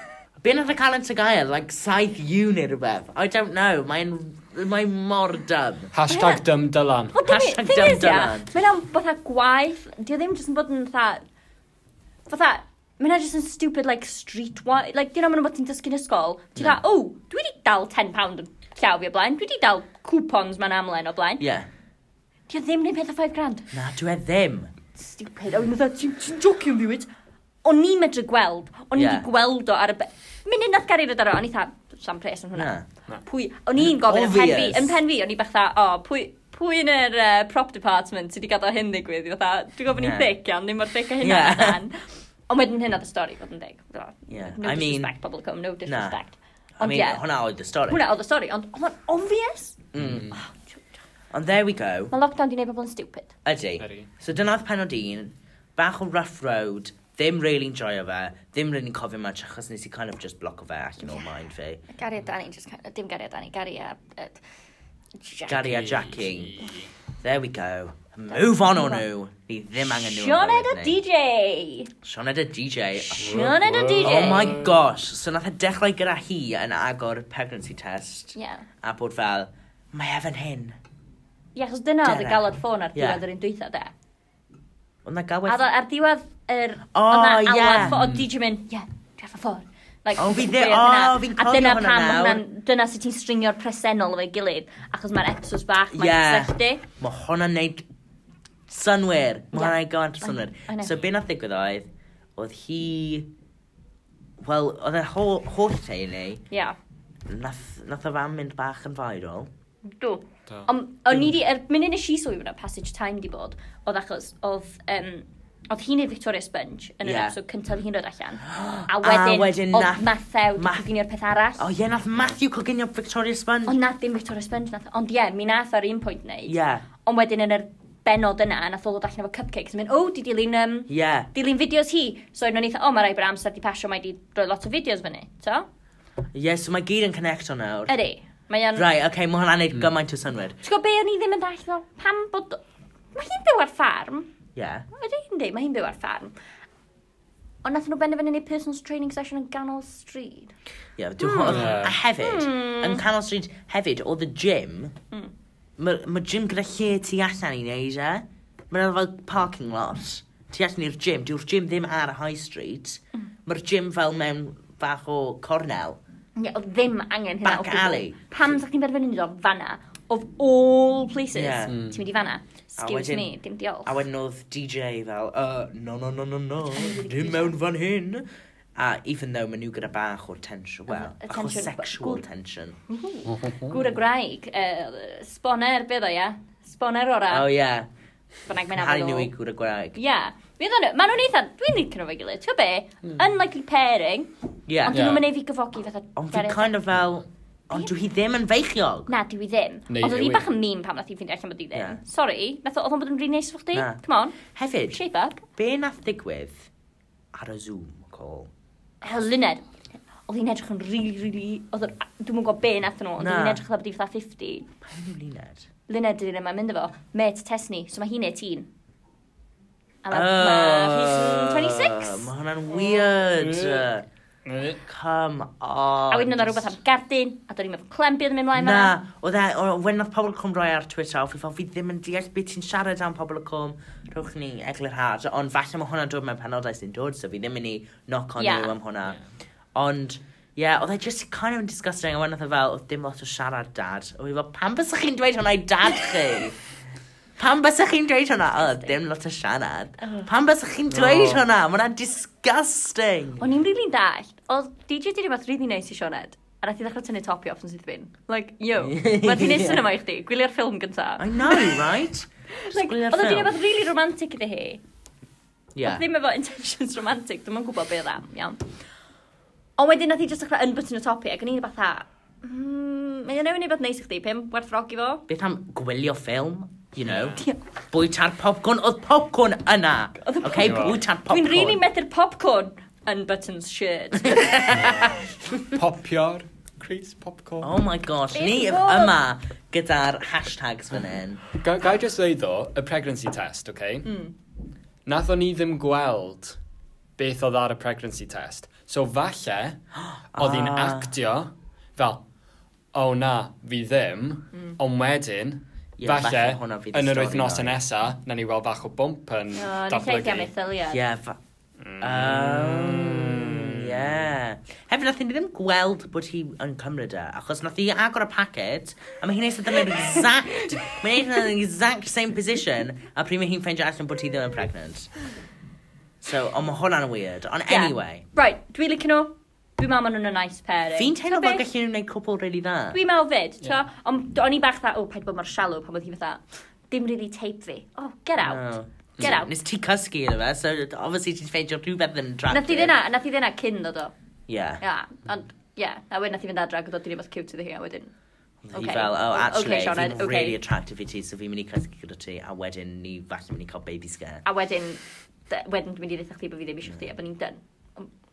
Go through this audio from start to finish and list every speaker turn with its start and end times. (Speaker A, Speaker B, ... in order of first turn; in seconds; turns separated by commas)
Speaker A: 0.4-5.9, Speaker B: 5.9-7.2, Speaker C: 6.1-6.4, Speaker C: 7.1-11.3, Speaker A: 7.2-8.5, Speaker C: 12.3-21.4, Speaker A: 21.4-21.7, Speaker C: 22.5-23.7, Speaker A: 23.7-24.7, Speaker C: 24.9-27.1, Speaker C: 27.6-47.2, Speaker A: 28.9-29.3, Speaker A: 32.5-32.9, Speaker A: 33.8-35.0, Speaker A: 40.0-40.3, Speaker A: 41.2-41.8, Speaker A: 44.3-45.1, Speaker A: 45.9-46.2, Speaker A: 46.8-48.0, Speaker C: 47.9-49.8, Speaker A: 49.9-50.3, Speaker B: 50.0-50.4, Speaker C: 50.3-50.9, Speaker A: 51.3-52.1, Speaker C: 52.1-53.3, Speaker A: 53.5-61.8, Speaker B: 53.8-54.1, Speaker C: 61.9-64.4, Speaker C: 65.2-65.6, Speaker A: 65.5-66.6, Speaker B: 65.5-66.9, Speaker A: 67.2-71.0, Speaker C: 68.3-69.0, Speaker C: 70.0-71.9, Speaker A: 72.0-73.5, Speaker C: 73.1-74.5, Speaker B: 73.2-74.8, Speaker A: 74.0-80.8, Speaker C: 78.3-78.7, Speaker C: 81.5-83.9, Speaker A: 82.0-83.2, Speaker A: 85.0-85.6, Speaker C: 85.5-96.8, Speaker A: 87.0-88.0, Speaker B: 87.8-88.3, Speaker A: 90.2-92.4, Speaker A: 95.9-97.9, Speaker A: 98.7-103.3, Speaker C: 99.5-101.0, Speaker A: 104.4-106.4, Speaker C: 106.5-106.8, Speaker A: 107.3-109.5, Speaker C: 110.0-121.7, Speaker A: 111.1-111.3, Speaker A: 117.0-117.4, Speaker A: 118.5-120.9, Speaker A: 121.6-123.8, Speaker C: 123.7-135.7, Speaker A: 126.5-126.8, Speaker A: 130.9-131.3, Speaker A: 136.3-137.9, Speaker C: 137.9-138.9, Speaker A: 138.8-140.6, Speaker C: 140.6-142.6, Speaker C: 143.1-144.3, Speaker A: 144.6-144.9, Speaker C: 144.9-146.3, Speaker C: 147.6-150.5, Speaker A: 151.0-154.9, Speaker C: 151.2-153.0, Speaker B: 151.5-152.0, Speaker A: 155.8-166.0, Speaker C: 166.4-174.0, Speaker A: 167.4-168.2, Speaker A: 171.3-171.8, Speaker B: 171.7-172.0, Speaker A: 172.8-173.3, Speaker A: 173.8-178.3, Speaker C: 176.7-177.6, Speaker A: 178.8-182.8, Speaker C: 180.9-182.2, Speaker C: 182.9-187.5, Speaker B: 183.3-183.6, Speaker A: 187.3-187.9, Speaker C: 188.5-189.3, Speaker A: 188.7-190.0, Speaker C: 189.9-194.3, Speaker A: 194.7-195.2, Speaker C: 194.8-196.7, Speaker B: 194.9-195.3, Speaker A: 196.2-199.1, Speaker C: 199.1-205.4, Speaker B: 199.9-200.5, Speaker A: 201.7-202.0, Speaker A: 203.7-204.0, Speaker A: 204.5-205.0, Speaker A: 205.6-206.7, Speaker A: 207.3-208.5, Speaker C: 209.0-209.7, Speaker C: 210.3-214.7, Speaker A: 213.2-213.6, Speaker A: 214.8-215.7, Speaker C: 215.9-218.7, Speaker C: 220.0-222.3, Speaker A: 220.1-224.1, Speaker B: 222.8-223.9, Speaker B: 224.5-224.8, Speaker A: 224.8-226.7, Speaker C: 226.1-229.0, Speaker A: 228.5-239.2, Speaker C: 238.4-238.8, Speaker A: 239.8-246.6, Speaker A: 247.4-253.5, Speaker C: 248.6-248.9, Speaker C: 250.0-250.3, Speaker B: 250.9-251.4, Speaker C: 253.4-261.9, Speaker A: 258.8-259.8, Speaker A: 261.2-263.6, Speaker C: 262.5-264.8, Speaker A: 265.8-266.1, Speaker C: 265.8-268.6, Speaker C: 269.8-275.2, Speaker A: 275.3-281.8, Speaker B: 277.0-277.4, Speaker C: 280.2-284.8, Speaker B: 280.6-281.0, Speaker A: 284.2-285.2, Speaker B: 284.7-287.7, Speaker A: 287.6-291.5, Speaker C: 288.3-289.2, Speaker B: 291.5-294.1, Speaker C: 294.1-294.3, Speaker B: 295.1-296.6, Speaker B: 297.2-299.8, Speaker A: 300.0-301.1, Speaker B: 300.4-302.2, Speaker B: 302.9-310.5, Speaker A: 306.0-307.8, Speaker C: 309.5-311.0, Speaker A: 310.9-311.4, Speaker B: 311.8-314.2, Speaker A: 312.0-325.1, Speaker C: 319.9-320.6, Speaker A: 326.2-328.2, Speaker C: 327.7-331.7, Speaker A: 330.9-333.0, Speaker C: 332.9-339.5, Speaker A: 338.4-342.9, Speaker C: 342.5-344.1, Speaker A: 344.5-344.8, Speaker C: 344.8-348.1, Speaker A: 348.6-354.4, Speaker C: 348.7-350.6, Speaker C: 354.4-358.1